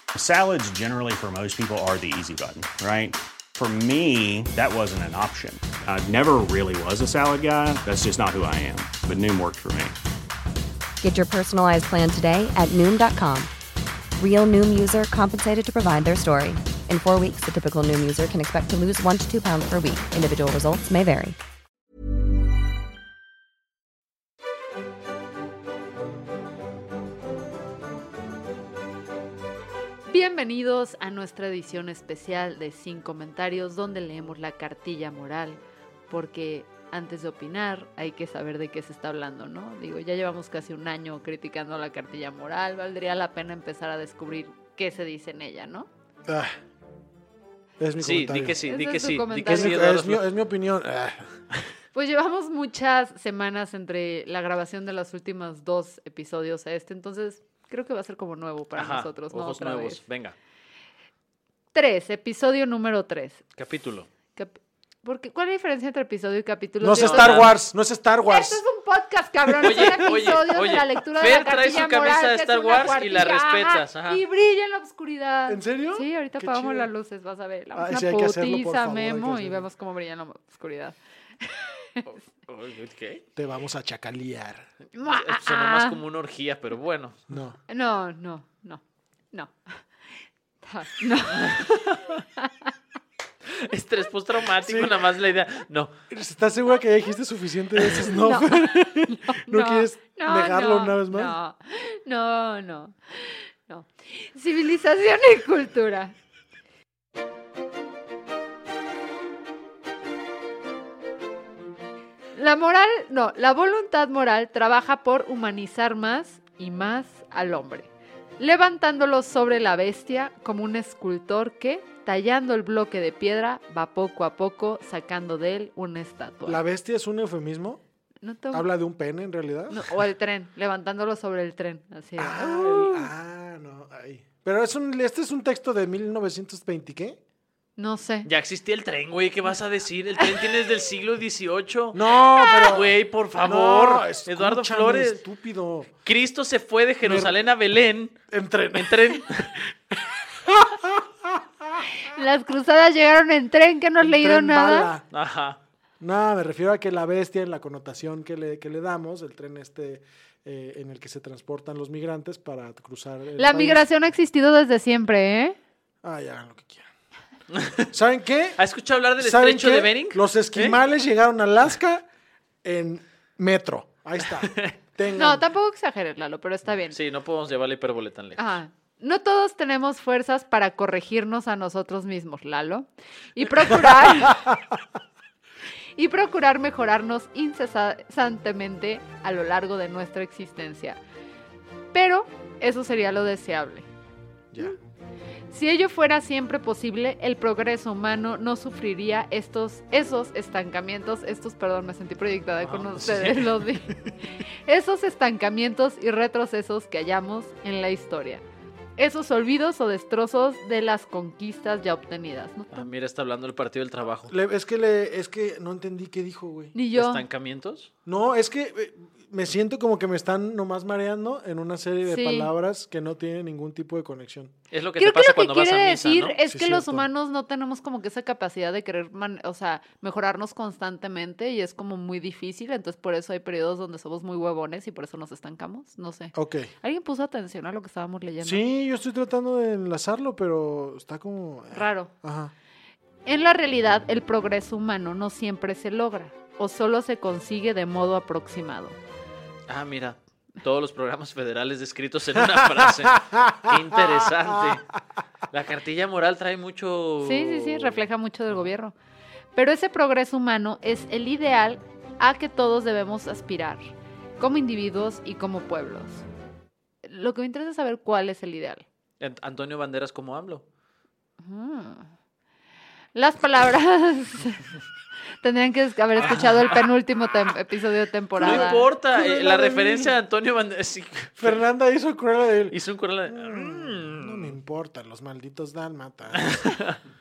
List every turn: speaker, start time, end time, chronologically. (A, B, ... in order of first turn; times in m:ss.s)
0:00.2-0:10.0 A
0:11.0-0:13.5 B
0:14.2-0:21.4 B
0:30.1-0:45.9 C
0:47.8-0:48.6 D
0:48.0-0:50.3 E
0:48.6-0:49.9 C
0:49.5-0:51.3 D
0:51.9-1:00.0 C
0:58.8-1:00.4 E
1:01.7-1:03.4 C
1:03.6-1:04.1 E
1:04.4-1:07.5 C
1:06.8-1:08.6 D
1:06.9-1:07.6 E
1:08.3-1:22.1 C
1:09.4-1:10.0 D
1:09.6-1:14.2 E
1:15.5-1:16.9 D
1:17.7-1:19.7 D
1:22.5-1:23.2 E
1:23.4-1:24.7 D
1:24.9-1:26.0 C
1:25.0-1:27.2 E
1:27.3-1:27.6 D
1:27.7-1:29.8 C
1:30.6-1:32.7 C
1:31.5-1:32.2 E
1:33.5-1:35.9 E
1:34.6-1:35.1 D
1:36.1-1:41.4 D
1:37.8-1:38.1 E
1:38.1-1:46.1 C
1:52.4-2:06.6 C
2:06.5-2:07.8 D
2:08.2-2:08.7 C
2:08.5-2:09.9 D
2:09.7-2:13.1 C
2:12.2-2:17.2 D
2:17.8-2:18.3 C
2:18.2-2:22.0 E
2:21.9-2:25.9 D
2:22.6-2:25.2 E
2:26.1-2:28.2 E
2:27.0-2:27.4 D
2:28.3-2:31.4 D
2:28.7-2:29.5 E
2:32.0-2:34.9 C
2:34.0-2:35.0 D
2:35.1-2:35.6 E
2:36.0-2:43.9 D
2:43.4-2:45.6 C
2:46.0-2:46.9 D
2:47.5-2:47.9 E
2:47.9-2:48.6 D
2:48.6-2:50.8 E
2:49.2-2:52.0 D
2:52.6-2:55.4 D
2:54.3-2:54.8 E
2:55.1-2:57.0 C
2:56.9-2:58.4 E
2:58.4-3:04.6 C
3:06.0-3:11.0 C
3:11.9-3:13.9 C
3:15.5-3:28.4 C
3:22.6-3:23.9 D
3:29.0-3:32.9 C
3:32.7-3:34.3 E
3:34.3-3:36.9 D
3:36.7-3:37.2 C
3:36.9-3:37.9 E
3:38.1-3:44.5 D
3:42.0-3:42.5 C
3:44.7-3:46.4 E
3:45.0-3:58.6 C
3:46.5-3:47.1 D
3:56.4-3:56.7 D
3:58.4-4:02.5 D
4:01.7-4:02.1 C
4:03.2-4:09.0 C
4:09.7-4:14.9 E
4:12.6-4:13.8 D
4:14.4-4:14.7 D
4:15.5-4:18.7 E
4:17.2-4:19.0 C
4:19.6-4:26.2 C
4:27.0-4:28.9 C
4:29.2-4:30.6 E
4:31.4-4:32.1 C
4:33.1-4:34.7 C
4:35.4-4:38.9 C
4:36.2-4:36.9 E
4:38.4-4:40.2 D
4:38.4-4:41.6 E
4:41.4-4:46.6 D
4:42.7-4:44.6 E
4:46.3-4:47.0 E